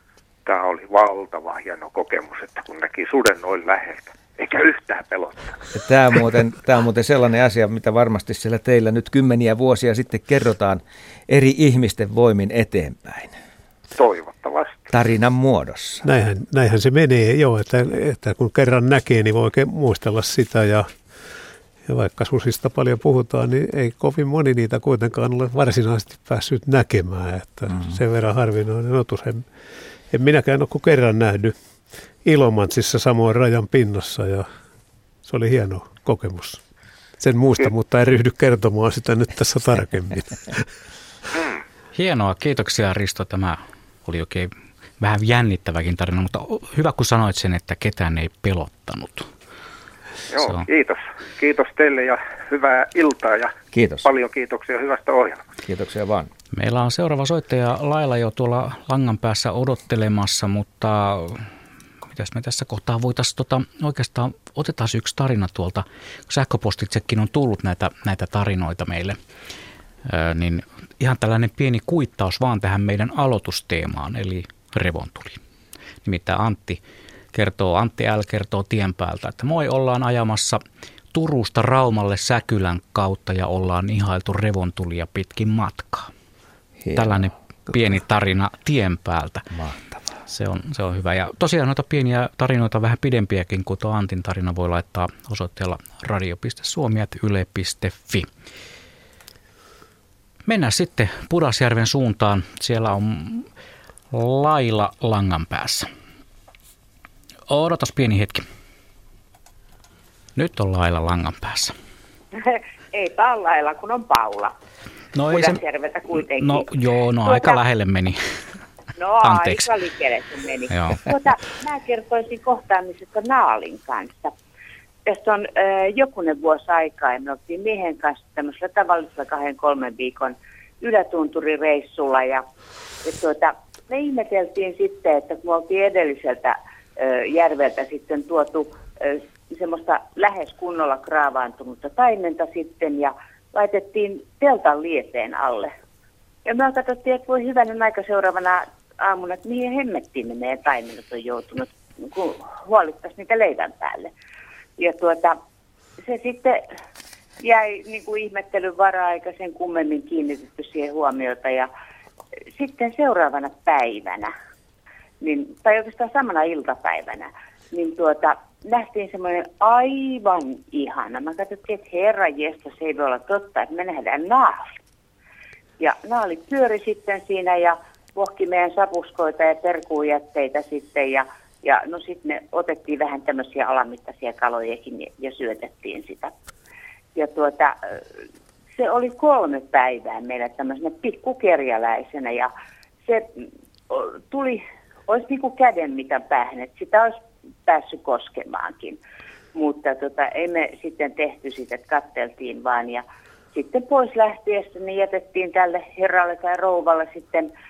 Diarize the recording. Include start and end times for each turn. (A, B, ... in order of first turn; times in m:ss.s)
0:00.4-0:05.6 A
0:05.7-0:13.4 B
0:14.0-0:14.8 A
0:14.9-0:16.0 B
0:16.0-0:20.9 C
0:21.9-0:29.5 C
0:27.7-0:28.0 B
0:30.1-0:31.5 C
0:32.2-0:34.5 C
0:35.2-0:36.6 C
0:37.2-0:40.6 C
0:41.9-0:49.3 D
0:50.3-0:53.5 A
0:53.7-0:54.0 B
0:54.0-0:55.4 A
0:55.6-0:56.3 B
0:56.5-1:01.5 D
1:02.1-1:09.2 D
1:10.0-1:15.4 D
1:16.0-1:16.8 D
1:17.3-1:20.6 D
1:21.1-1:26.1 D
1:26.8-1:27.3 B
1:26.9-1:29.5 D
1:29.5-1:30.0 B
1:30.3-1:38.3 D
1:40.5-1:43.5 D
1:44.1-1:45.9 D
1:47.5-1:48.4 D
1:50.4-1:51.7 D
1:52.4-1:54.5 E
1:55.1-1:58.2 D
1:55.3-1:56.7 E
1:57.2-1:57.6 E
1:59.0-2:04.3 E
1:59.2-1:59.7 D
2:00.7-2:01.1 D
2:05.0-2:12.4 E
2:13.0-2:25.7 E
2:26.4-2:34.1 E
2:34.8-2:35.4 E
2:36.0-2:36.6 E
2:37.4-2:41.7 E
2:42.5-2:44.3 E
2:45.2-2:54.7 E
2:55.8-3:06.3 E
3:07.1-3:08.0 E
3:08.8-3:12.5 E
3:13.9-3:17.2 E
3:17.7-3:19.0 E
3:19.5-3:27.5 E